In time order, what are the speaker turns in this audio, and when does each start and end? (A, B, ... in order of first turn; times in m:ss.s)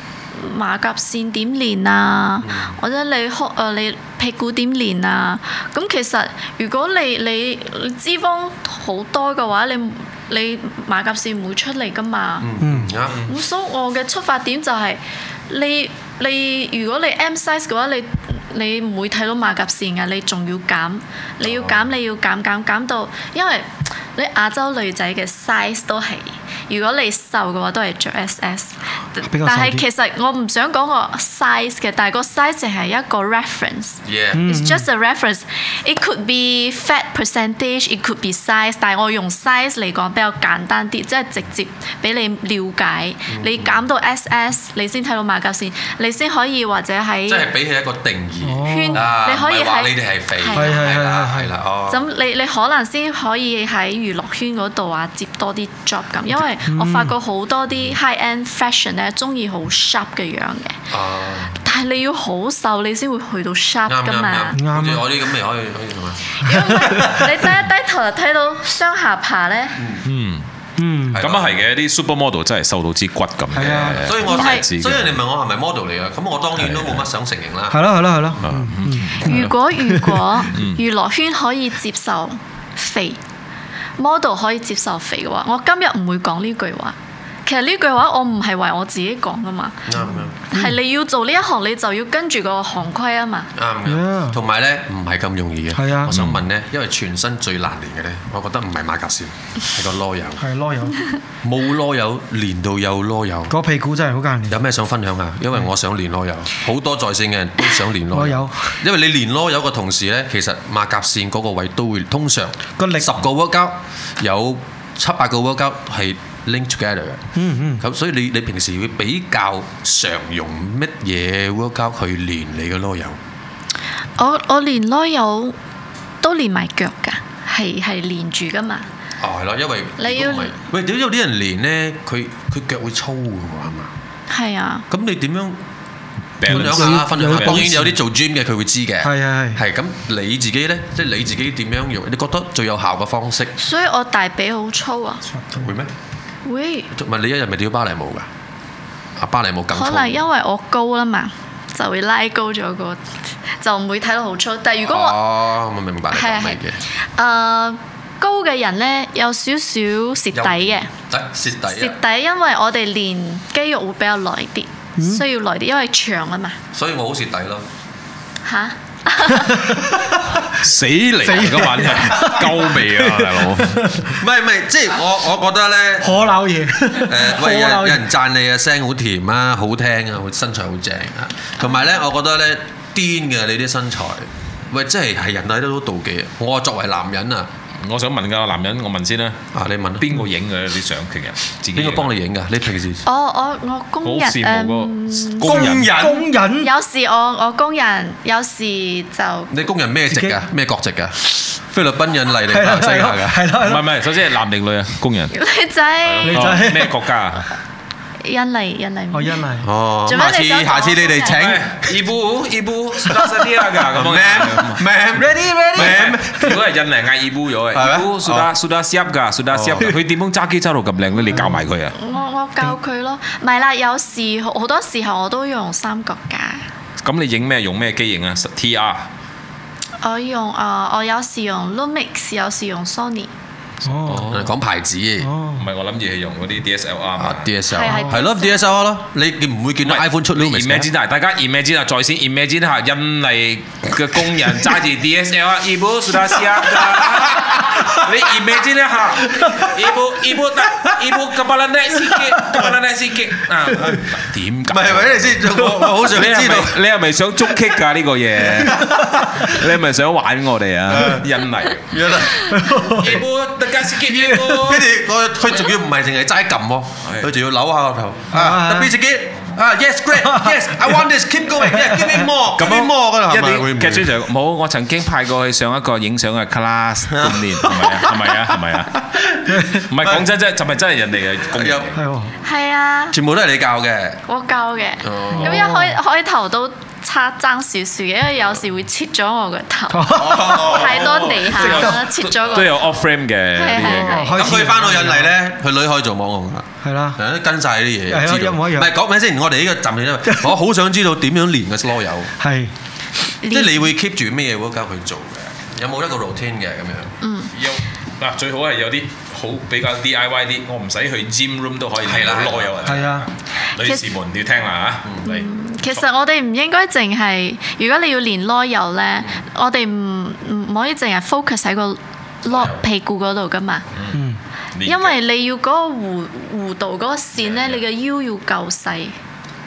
0:00.4-0:12.5 A
0:02.4-0:02.7 B
0:12.4-0:13.2 B
0:12.6-0:12.9 C
0:13.3-0:47.5 A
0:21.4-0:21.9 B
0:29.2-0:29.8 C
0:34.0-0:34.5 B
0:34.4-0:34.8 C
0:43.3-0:43.8 B
0:47.3-0:52.1 B
0:48.4-0:49.0 C
0:48.6-0:50.9 A
0:50.6-0:51.5 C
0:51.9-1:00.8 A
0:56.7-0:57.1 C
1:00.9-1:01.6 B
1:01.6-1:04.6 A
1:03.9-1:07.3 B
1:04.5-1:05.0 C
1:06.4-1:09.8 A
1:09.8-1:10.1 B
1:10.0-1:10.5 D
1:10.8-1:11.2 C
1:11.1-1:11.6 B
1:11.2-1:15.2 D
1:13.6-1:14.0 C
1:13.8-1:17.9 B
1:14.3-1:14.6 A
1:16.6-1:17.0 D
1:17.7-1:20.3 C
1:18.4-1:19.6 D
1:19.2-1:23.2 A
1:20.5-1:20.8 D
1:24.0-1:27.0 A
1:27.5-1:33.5 A
1:29.9-1:30.4 B
1:33.6-1:40.5 B
1:33.9-1:34.4 C
1:35.8-1:36.1 C
1:36.1-1:36.4 D
1:40.4-1:40.9 C
1:41.4-1:43.6 B
1:43.5-1:44.6 C
1:44.5-1:57.3 B
1:48.1-1:48.8 C
1:52.8-1:53.1 C
1:57.4-1:57.8 C
1:57.8-2:03.2 B
2:04.2-2:05.6 A
2:06.2-2:08.9 A
2:09.2-2:13.9 B
2:10.0-2:10.6 A
2:14.3-2:14.8 A
2:14.9-2:15.6 B
2:16.4-2:17.7 D
2:16.5-2:23.6 B
2:16.5-2:17.9 C
2:19.0-2:19.6 C
2:23.6-2:25.2 A
2:25.3-2:25.6 C
2:25.6-2:25.9 B
2:26.4-2:26.9 A
2:26.9-2:28.3 B
2:29.2-2:30.2 B
2:29.7-2:35.2 A
2:34.8-2:36.8 B
2:36.1-2:36.6 A
2:37.2-2:40.9 A
2:40.3-2:42.0 B
2:41.7-2:46.6 A
2:46.7-2:47.7 B
2:48.4-2:49.6 A
2:50.5-2:53.9 D
2:51.2-2:54.0 C
2:52.4-2:52.8 B
2:54.0-2:56.3 B
2:56.0-2:58.0 C
2:57.0-3:07.5 B
3:07.8-3:09.4 D
3:09.5-3:10.2 B
3:10.0-3:12.1 D
3:11.7-3:13.0 B
3:13.0-3:15.5 A
3:14.0-3:15.9 D
3:15.4-3:16.3 B
3:15.5-3:16.7 C
3:16.6-3:19.5 A
3:19.5-3:23.5 B
3:20.1-3:20.4 C
3:22.5-3:23.9 C
3:23.6-3:25.3 D
3:25.3-3:26.4 A
3:26.1-3:26.6 B
3:26.2-3:27.5 D
3:26.2-3:27.0 C
3:28.2-3:29.4 A
3:29.1-3:29.7 C
3:29.6-3:32.0 B
3:30.0-3:31.3 A
3:31.2-3:34.9 D
3:33.9-3:36.6 B
3:35.2-3:36.6 C
3:35.8-3:42.0 D
3:37.7-3:38.5 B
3:39.5-3:39.9 B
3:42.0-3:46.6 A
3:47.0-3:49.1 D
3:50.0-3:53.3 A
3:53.9-3:54.3 C
3:54.0-3:54.5 D
3:54.2-3:55.3 B
3:55.2-3:55.6 C
3:55.6-3:57.5 D
3:57.2-4:00.9 B
3:57.7-3:58.8 A
3:59.8-4:24.9 D
4:06.8-4:07.9 B
4:14.7-4:16.8 B
4:18.7-4:19.0 B
4:20.9-4:21.3 B
4:21.9-4:23.2 B
4:22.5-4:23.0 C
4:24.5-4:34.1 B
4:27.0-4:27.3 D
4:28.3-4:28.9 C
4:32.6-4:39.0 D
4:37.2-4:40.3 B
4:39.9-4:42.0 D
4:41.5-4:42.0 B
4:42.0-4:42.3 C
4:42.4-4:43.2 A
4:43.1-4:44.2 B
4:44.3-4:52.9 A
4:45.0-4:45.9 B
4:49.9-4:50.6 C
4:50.1-4:51.5 B
4:50.4-4:54.4 D
4:53.6-4:54.4 A
4:54.2-4:55.3 C
4:54.3-5:02.3 B
4:56.8-4:57.2 C
4:58.1-4:58.9 C
5:02.4-5:02.7 C
5:03.4-5:03.9 A
5:03.5-5:07.2 B
5:07.2-5:07.5 A
5:07.5-5:16.0 D
5:12.0-5:12.9 B
5:12.9-5:13.2 C
5:15.2-5:23.8 A
5:23.9-5:24.2 D
5:24.7-5:25.2 D
5:24.8-5:29.2 A